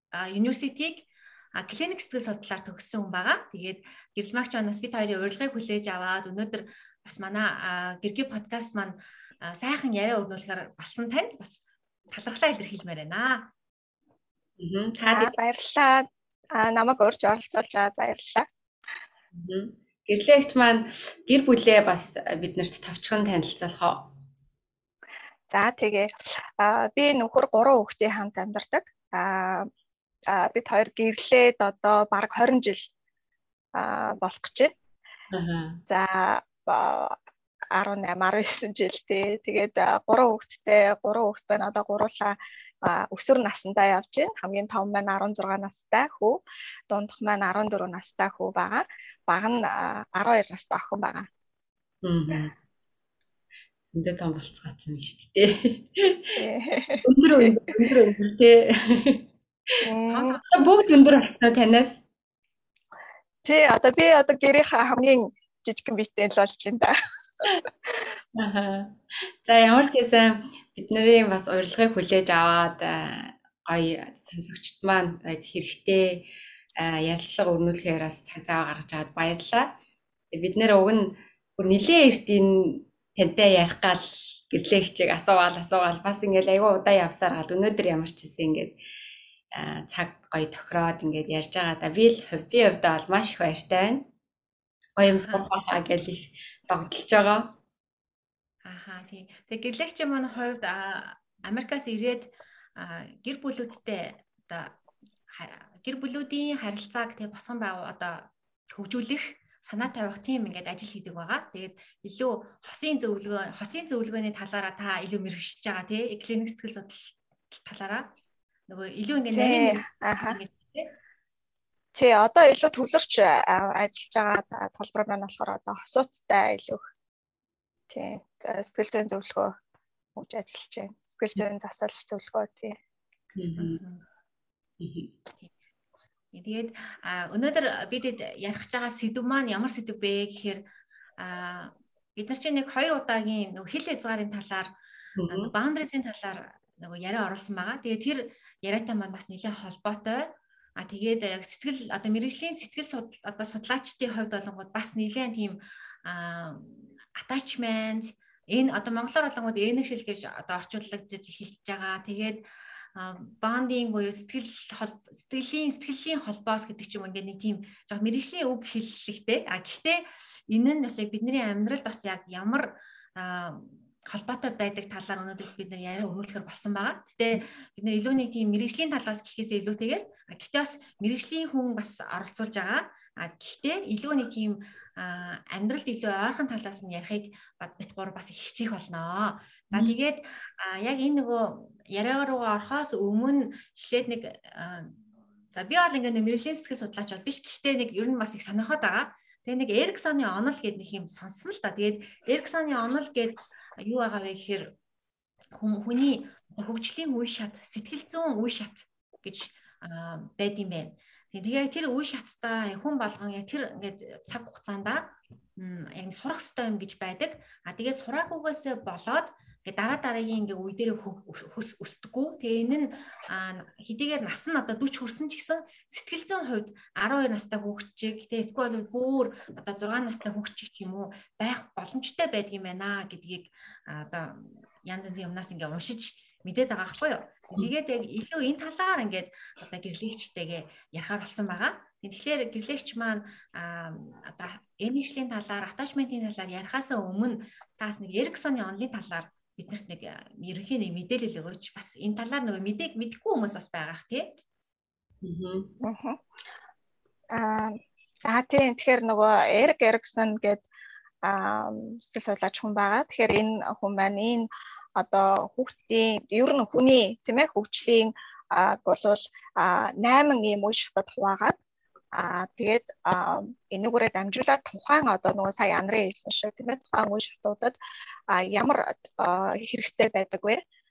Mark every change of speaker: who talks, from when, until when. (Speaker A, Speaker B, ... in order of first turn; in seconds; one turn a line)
Speaker A: 0.1-1.1
Speaker A: 1.6-13.5
Speaker B: 14.6-15.3
Speaker C: 15.1-18.5
Speaker B: 19.3-24.2
Speaker C: 25.5-29.7
Speaker C: 30.3-32.9
Speaker C: 33.8-34.7
Speaker B: 35.3-35.8
Speaker C: 35.9-37.2
Speaker C: 37.8-46.4
Speaker C: 46.9-51.3
Speaker B: 52.0-52.5
Speaker B: 53.9-56.3
Speaker C: 56.4-57.7
Speaker B: 57.0-59.3
Speaker C: 59.8-60.4
Speaker A: 60.1-61.0
Speaker B: 60.5-62.0
Speaker C: 63.4-66.9
Speaker C: 67.5-68.0
Speaker B: 68.3-79.8
Speaker B: 80.3-88.8
Speaker B: 89.5-94.1
Speaker B: 95.0-97.6
Speaker A: 98.7-104.8
Speaker A: 105.3-118.1
Speaker A: 118.7-120.9
Speaker C: 119.3-120.4
Speaker C: 121.9-126.8
Speaker C: 127.9-129.6
Speaker C: 130.2-132.8
Speaker B: 133.3-133.8
Speaker A: 133.6-134.0
Speaker B: 134.8-135.1
Speaker A: 136.3-140.6
Speaker A: 141.2-144.7
Speaker B: 145.2-145.5
Speaker A: 145.3-162.4
Speaker A: 163.0-195.0
Speaker B: 189.7-190.0
Speaker A: 195.5-204.8
Speaker A: 205.5-254.4
Speaker B: 255.2-255.7
Speaker C: 255.8-256.2
Speaker C: 257.3-260.6
Speaker C: 261.2-271.6
Speaker C: 272.2-277.8
Speaker C: 278.3-280.6